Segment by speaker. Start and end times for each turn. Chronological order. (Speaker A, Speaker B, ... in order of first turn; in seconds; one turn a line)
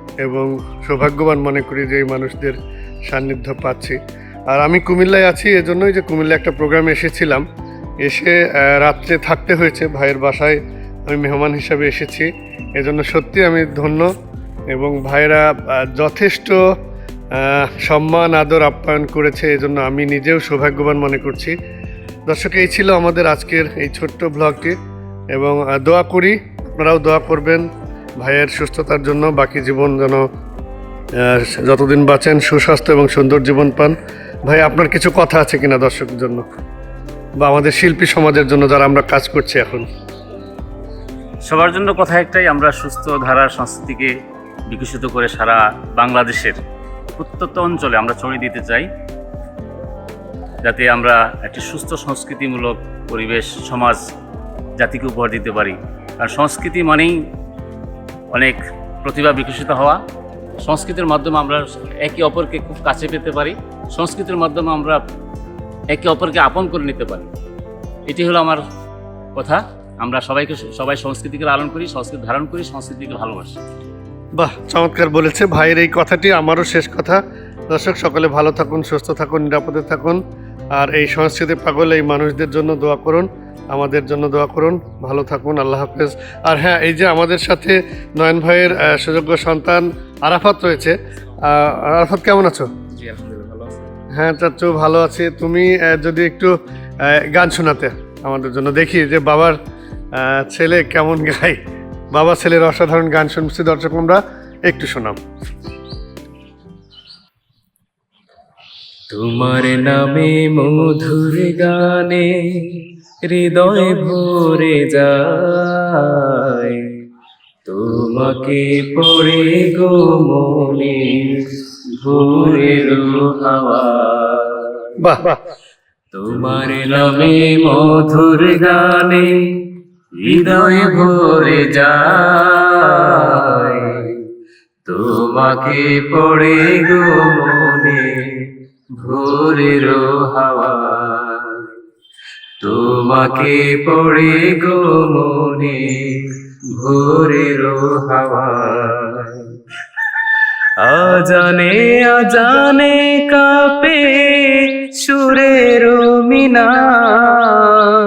Speaker A: 0.2-4.0
Speaker A: 4.5-7.4
Speaker A: 8.0-10.6
Speaker A: 11.1-14.1
Speaker A: 14.7-16.6
Speaker A: 17.4-21.5
Speaker A: 22.3-24.8
Speaker A: 25.3-27.6
Speaker A: 28.2-30.2
Speaker A: 31.2-33.9
Speaker A: 34.5-36.4
Speaker A: 37.4-39.9
Speaker B: 41.5-44.1
Speaker B: 44.7-46.5
Speaker B: 47.2-48.9
Speaker B: 50.6-54.0
Speaker B: 54.8-57.1
Speaker B: 58.3-60.0
Speaker B: 60.6-65.0
Speaker B: 65.9-67.3
Speaker B: 68.1-68.6
Speaker B: 69.4-73.5
Speaker A: 74.4-77.2
Speaker A: 77.7-80.2
Speaker A: 80.8-92.7
Speaker C: 93.0-93.8
Speaker A: 94.1-96.5
Speaker A: 97.0-99.6
Speaker A: 100.2-101.6
Speaker A: 102.1-105.2
Speaker C: 109.1-112.3
Speaker C: 113.2-116.7
Speaker C: 117.7-121.0
Speaker C: 122.0-124.6
Speaker A: 125.0-125.4
Speaker C: 126.1-129.3
Speaker C: 130.2-132.6
Speaker C: 133.4-134.1
Speaker C: 134.9-138.1
Speaker C: 139.0-141.6
Speaker C: 142.6-146.1
Speaker C: 146.7-149.4
Speaker C: 150.8-157.8